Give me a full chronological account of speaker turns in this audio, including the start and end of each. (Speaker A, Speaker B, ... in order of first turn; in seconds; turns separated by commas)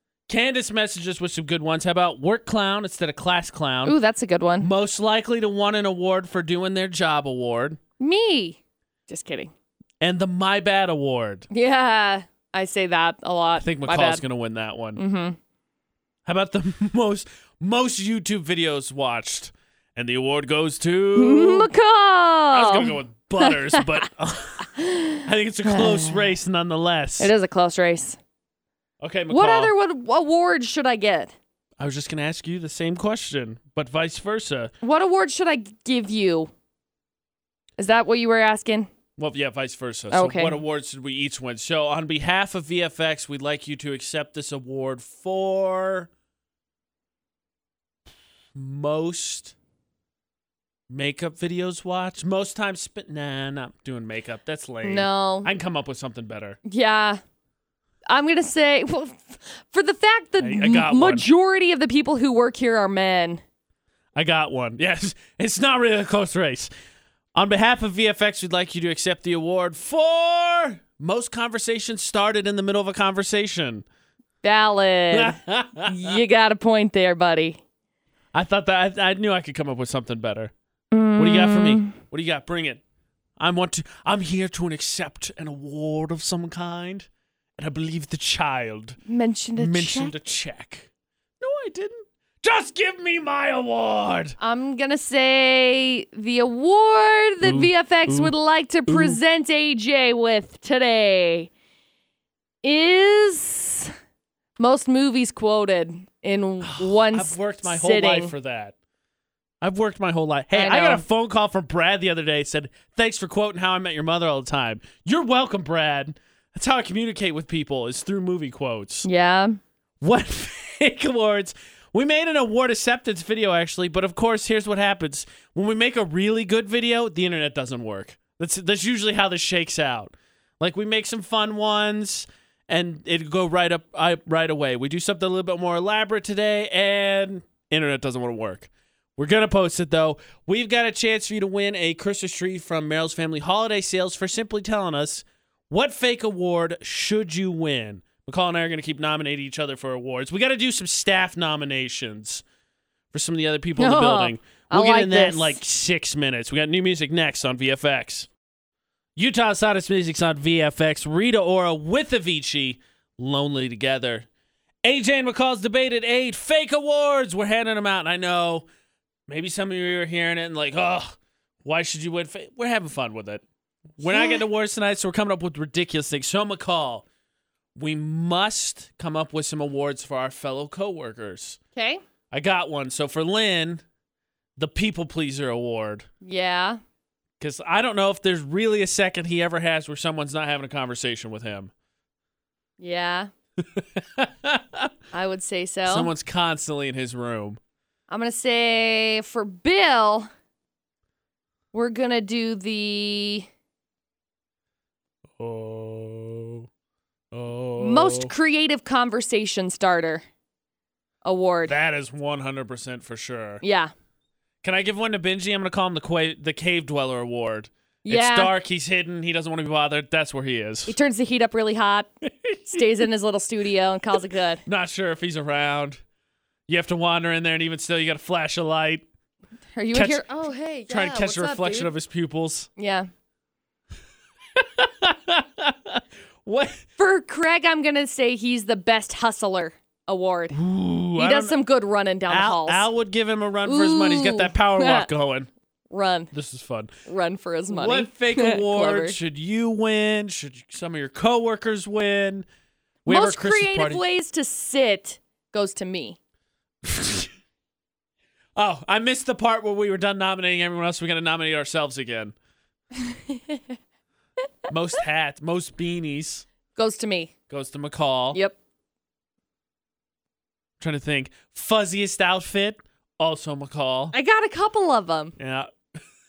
Speaker A: 0.3-4.0, Speaker B: 3.9-4.7, Speaker A: 4.6-7.8, Speaker B: 8.0-9.5, Speaker A: 10.0-11.5, Speaker B: 11.5-14.2, Speaker A: 13.6-15.0, Speaker B: 14.9-15.4, Speaker A: 16.2-21.7, Speaker B: 21.2-23.9, Speaker A: 22.5-27.3, Speaker B: 24.7-26.3, Speaker B: 27.2-28.2, Speaker A: 29.0-29.7, Speaker B: 29.3-31.4, Speaker A: 31.8-34.7, Speaker B: 34.8-36.5, Speaker B: 37.8-38.9, Speaker A: 39.2-46.1, Speaker B: 40.1-40.6, Speaker A: 48.5-49.5, Speaker A: 50.9-56.6, Speaker B: 54.8-55.5, Speaker B: 56.7-57.2, Speaker B: 58.1-63.4, Speaker A: 60.4-61.2, Speaker A: 64.1-66.7, Speaker A: 67.3-73.8, Speaker B: 74.4-77.6, Speaker A: 75.1-76.2, Speaker A: 78.3-80.5, Speaker B: 80.9-81.9, Speaker A: 81.2-82.8, Speaker A: 83.4-89.0, Speaker B: 89.1-90.1, Speaker A: 89.5-90.9, Speaker A: 91.4-94.4, Speaker B: 94.4-101.5, Speaker A: 97.4-98.3, Speaker A: 98.9-99.2, Speaker B: 102.6-103.9, Speaker B: 104.6-108.3, Speaker A: 106.6-108.7, Speaker A: 109.6-119.1, Speaker B: 110.5-111.0, Speaker B: 119.0-119.6, Speaker A: 120.0-152.4, Speaker A: 153.1-158.3, Speaker B: 153.8-155.6, Speaker A: 159.2-164.3, Speaker A: 164.8-168.7, Speaker A: 169.3-173.4, Speaker A: 174.0-177.1, Speaker B: 174.0-174.4, Speaker A: 177.8-181.6, Speaker B: 181.7-182.0, Speaker A: 182.3-183.8, Speaker A: 184.6-186.1, Speaker B: 186.2-186.8, Speaker A: 187.4-191.7, Speaker B: 192.8-193.3, Speaker A: 193.8-194.9, Speaker B: 195.1-196.1, Speaker A: 195.9-197.6, Speaker B: 198.1-200.3, Speaker B: 201.7-203.5, Speaker A: 205.4-206.7, Speaker A: 207.3-208.3, Speaker B: 207.8-210.2, Speaker B: 211.2-211.7, Speaker A: 211.7-213.6, Speaker B: 213.6-213.9, Speaker A: 214.6-220.9, Speaker B: 218.1-218.5, Speaker B: 220.9-222.1, Speaker A: 222.2-222.7, Speaker B: 222.7-224.6, Speaker A: 224.6-226.0, Speaker A: 226.7-229.1, Speaker B: 229.8-231.9, Speaker A: 229.9-230.2, Speaker A: 230.9-232.7, Speaker B: 232.8-233.1, Speaker A: 234.6-236.8, Speaker B: 237.0-240.6, Speaker A: 240.5-241.6, Speaker B: 241.2-242.9, Speaker A: 242.3-245.5, Speaker B: 243.6-245.1, Speaker B: 245.9-246.3, Speaker A: 246.3-246.9, Speaker B: 247.1-249.2, Speaker A: 247.7-252.4, Speaker A: 253.1-254.0, Speaker B: 253.1-256.2, Speaker A: 256.8-257.3, Speaker A: 258.6-262.4, Speaker B: 262.9-263.6, Speaker A: 264.7-266.4, Speaker B: 266.7-267.3, Speaker A: 267.5-268.4, Speaker A: 270.8-274.1, Speaker B: 274.1-275.4, Speaker A: 275.4-275.7